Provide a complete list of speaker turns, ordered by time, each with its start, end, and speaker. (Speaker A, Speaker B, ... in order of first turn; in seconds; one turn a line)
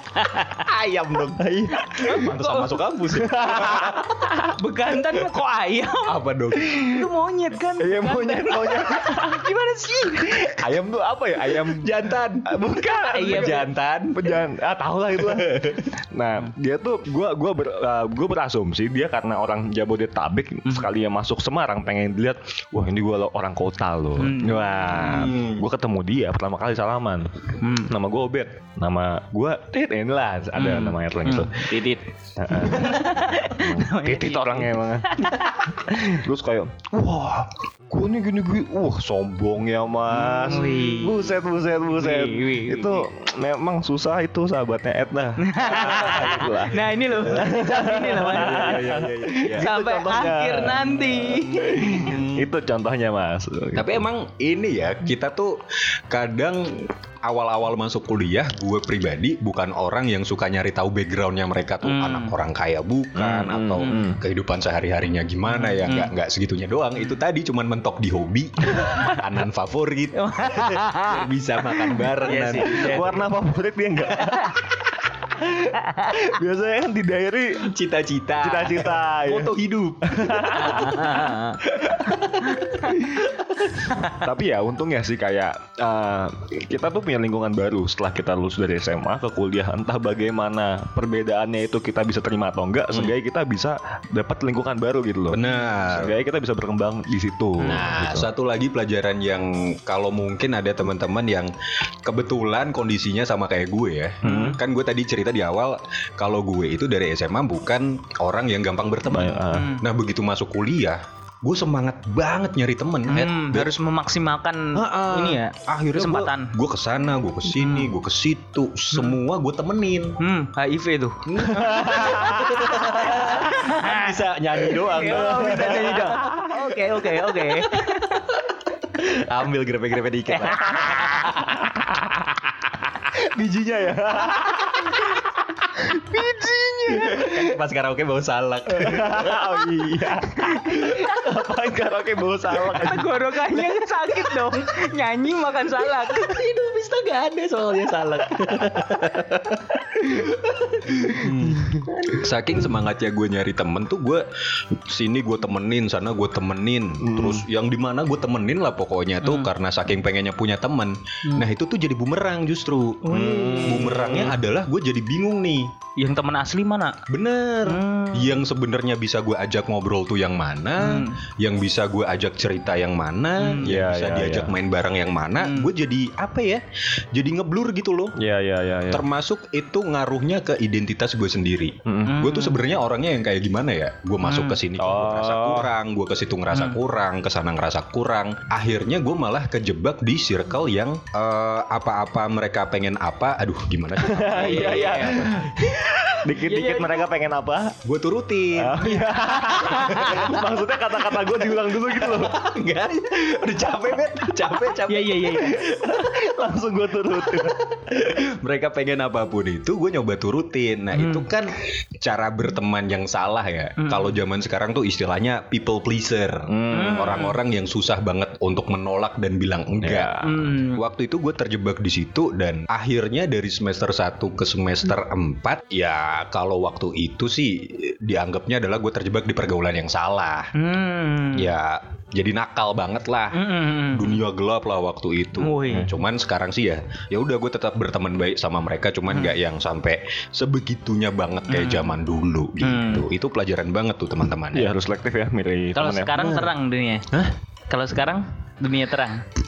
Speaker A: 0.6-1.5
Speaker B: 1.4-2.2
Speaker C: 1.9-2.8
Speaker A: 2.0-4.4
Speaker B: 3.1-4.5
Speaker C: 4.4-10.5
Speaker A: 6.0-6.9
Speaker B: 7.8-9.5
Speaker B: 10.2-27.3
Speaker A: 10.6-12.6
Speaker C: 12.8-13.7
Speaker A: 13.1-14.3
Speaker A: 15.2-15.8
Speaker C: 24.2-25.1
Speaker A: 25.0-25.6
Speaker C: 27.6-27.9
Speaker B: 27.8-31.7
Speaker C: 30.6-36.2
Speaker B: 32.4-35.3
Speaker B: 35.9-54.0
Speaker C: 40.1-41.4
Speaker C: 41.9-43.1
Speaker C: 45.4-52.1
Speaker A: 45.6-46.6
Speaker A: 47.3-47.6
Speaker A: 48.3-49.7
Speaker A: 51.9-52.5
Speaker A: 53.7-73.2
Speaker C: 61.8-62.4
Speaker B: 63.1-64.2
Speaker C: 65.5-66.1
Speaker C: 70.1-73.2
Speaker B: 72.6-74.7
Speaker B: 75.2-77.7
Speaker C: 75.9-76.2
Speaker A: 77.6-81.0
Speaker B: 78.4-81.0
Speaker C: 80.5-81.6
Speaker A: 81.6-83.2
Speaker C: 82.5-82.9
Speaker B: 82.9-83.2
Speaker B: 83.9-98.3
Speaker A: 95.3-96.2
Speaker A: 97.6-101.5
Speaker A: 102.0-113.7
Speaker C: 104.2-104.6
Speaker B: 104.2-104.5
Speaker B: 109.1-109.7
Speaker C: 109.5-109.8
Speaker C: 113.1-116.5
Speaker A: 114.7-120.2
Speaker C: 117.6-117.9
Speaker C: 120.2-128.2
Speaker A: 121.3-126.2
Speaker B: 121.5-122.9
Speaker B: 124.9-126.5
Speaker A: 126.8-128.0
Speaker A: 128.9-131.7
Speaker C: 130.3-131.2
Speaker B: 131.5-131.9
Speaker B: 133.1-135.2
Speaker B: 135.8-137.5
Speaker C: 136.1-137.3
Speaker A: 136.9-139.6
Speaker B: 138.7-143.2
Speaker C: 140.4-141.1
Speaker C: 142.7-146.4
Speaker A: 145.9-165.7
Speaker B: 151.2-151.8
Speaker B: 157.0-157.4
Speaker C: 159.2-159.5
Speaker C: 163.0-164.3
Speaker B: 163.1-164.0
Speaker C: 166.0-167.0
Speaker A: 167.1-176.6
Speaker C: 167.6-168.4
Speaker C: 170.8-171.2
Speaker C: 173.4-173.8
Speaker B: 173.6-174.5
Speaker C: 175.4-175.7
Speaker A: 177.1-178.1
Speaker B: 178.2-179.0
Speaker A: 178.9-195.4
Speaker B: 181.8-182.2
Speaker C: 182.1-182.6
Speaker C: 184.2-184.6
Speaker B: 184.8-185.7
Speaker C: 186.5-186.8
Speaker B: 194.0-197.8
Speaker C: 194.3-195.4
Speaker C: 196.3-197.1
Speaker A: 197.8-200.4
Speaker B: 198.6-202.4
Speaker C: 199.4-200.3
Speaker A: 201.7-205.9
Speaker C: 204.8-205.6
Speaker B: 205.3-207.6
Speaker A: 207.3-220.1
Speaker C: 210.9-211.3
Speaker C: 213.8-214.1
Speaker B: 216.5-217.1
Speaker C: 216.7-217.4
Speaker B: 219.8-220.4
Speaker C: 220.2-220.8
Speaker A: 220.7-230.5
Speaker C: 230.5-231.5
Speaker A: 231.3-244.7
Speaker C: 233.3-234.2
Speaker C: 235.3-235.9
Speaker C: 239.1-239.4
Speaker C: 241.5-242.0
Speaker C: 242.6-243.1
Speaker B: 244.5-246.2
Speaker C: 245.7-247.1
Speaker C: 247.7-249.2